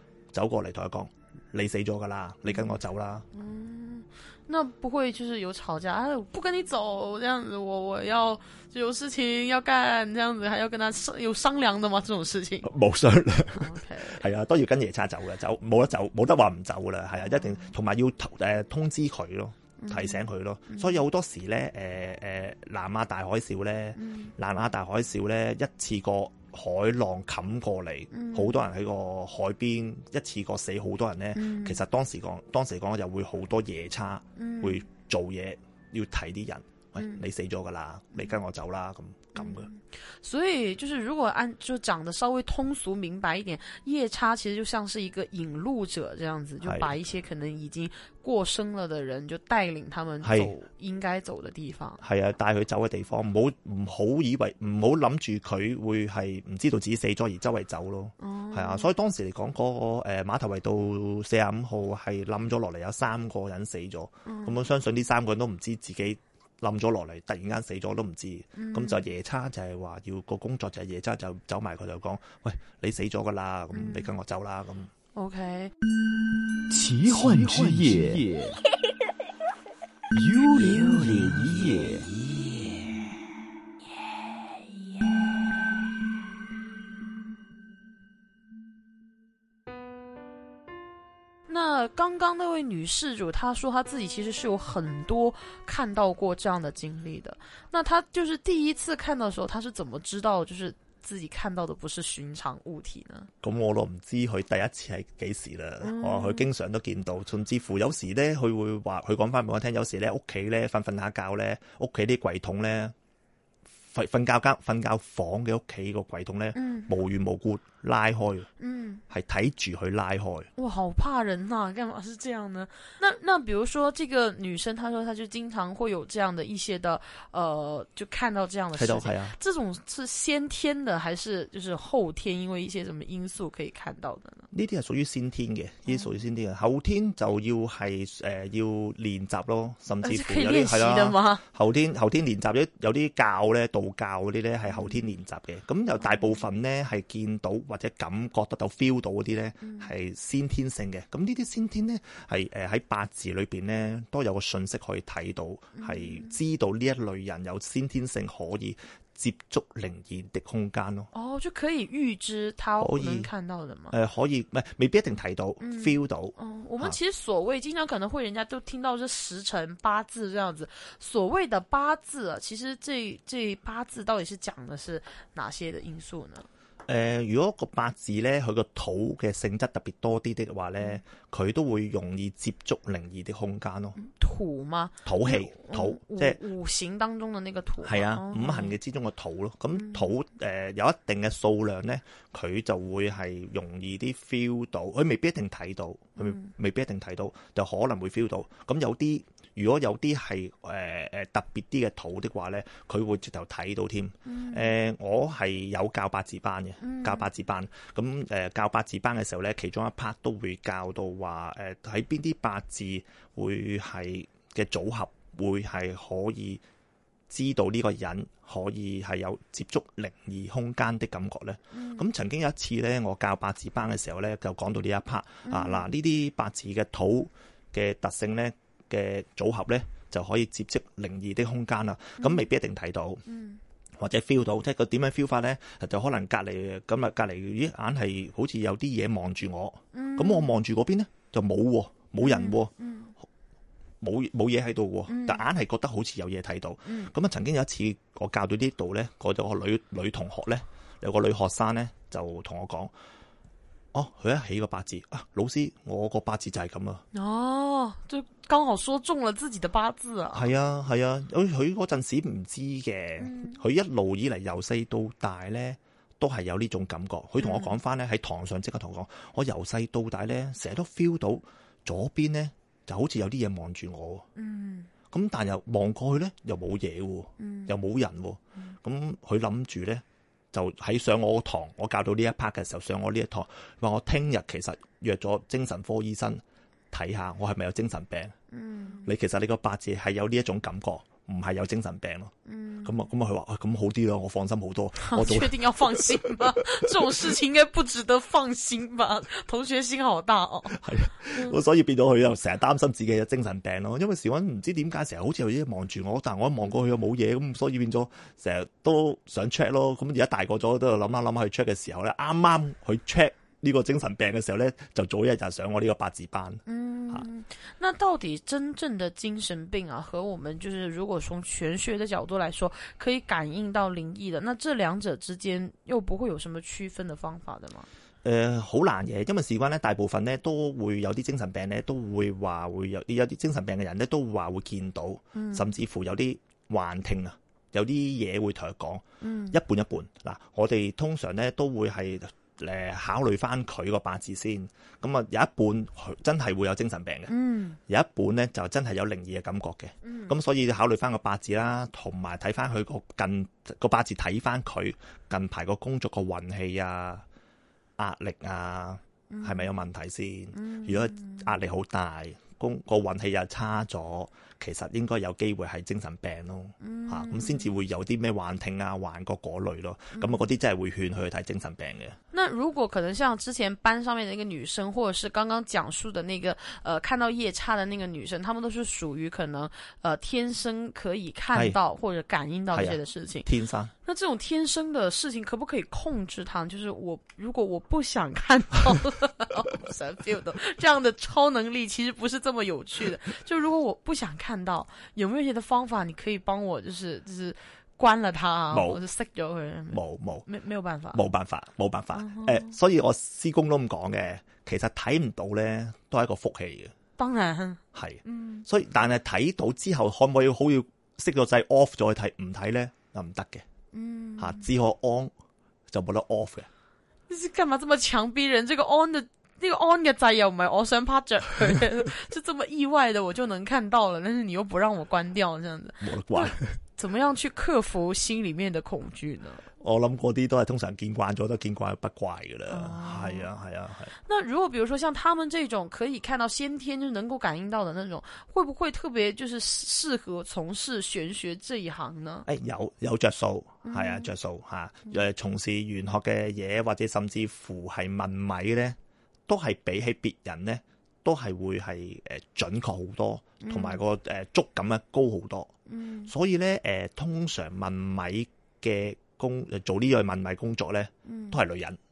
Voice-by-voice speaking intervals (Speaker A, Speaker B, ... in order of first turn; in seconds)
Speaker A: 0.3-3.3, 12.6-39.7, 46.6-46.9, 50.2-50.5, 52.0-74.9, 77.1-78.2, 103.4-112.9, 113.9-118.5, 119.1-120.5, 128.7-129.4, 134.5-161.1, 162.8-163.3, 163.9-167.0, 176.9-184.0, 185.0-186.4, 187.8-216.6, 217.3-233.2, 234.0-242.7, 244.0-252.9, 253.9-257.0, 260.3-274.2, 275.1-288.3, 289.0-292.3, 292.8-297.3, 300.6-317.3, 328.2-347.3, 347.9-357.2, 358.0-372.2, 381.5-381.8, 382.7-383.9, 398.7-399.0, 399.9-400.5, 401.1-406.9, 407.9-413.6, 414.4-415.3, 415.9-416.7, 426.0-426.8, 429.8-434.1, 442.5-449.0, 449.5-455.7, 456.3-462.0
Speaker B: 2.5-2.8, 3.3-12.7, 13.5-14.2, 17.2-17.7, 19.8-21.0, 23.9-24.3, 28.1-28.6, 31.3-31.8, 34.4-34.8, 37.0-37.2, 39.3-52.0, 58.2-58.9, 64.2-64.6, 68.6-69.1, 73.7-74.1, 75.1-75.7, 91.5-103.3, 105.8-106.5, 116.5-116.9, 118.6-119.0, 120.5-134.5, 135.9-136.1, 140.0-141.4, 149.6-149.9, 155.8-156.3, 161.1-163.9, 165.6-176.5, 183.9-188.8, 189.8-190.1, 196.2-196.5, 204.2-204.7, 206.8-207.2, 221.7-222.1, 225.4-225.9, 232.2-232.5, 233.3-233.6, 239.9-240.5, 242.2-243.1, 245.1-245.4, 246.8-247.1, 257.1-260.6, 263.2-263.6, 267.4-267.8, 274.3-274.9, 277.4-277.8, 288.5-289.1, 292.4-293.0, 295.0-300.8, 301.3-301.6, 316.6-327.9, 335.3-335.7, 339.2-339.6, 347.3-347.8, 350.0-350.4, 359.3-359.7, 360.5-361.5, 366.8-367.7, 370.1-370.5, 372.3-383.5, 384.0-401.2, 402.1-402.7, 407.2-408.6, 413.9-414.7, 417.3-429.6, 432.7-433.5, 434.2-442.5, 443.9-444.3, 453.6-454.0, 455.9-456.3, 461.2-461.6
Speaker C: 76.7-78.5, 80.2-82.0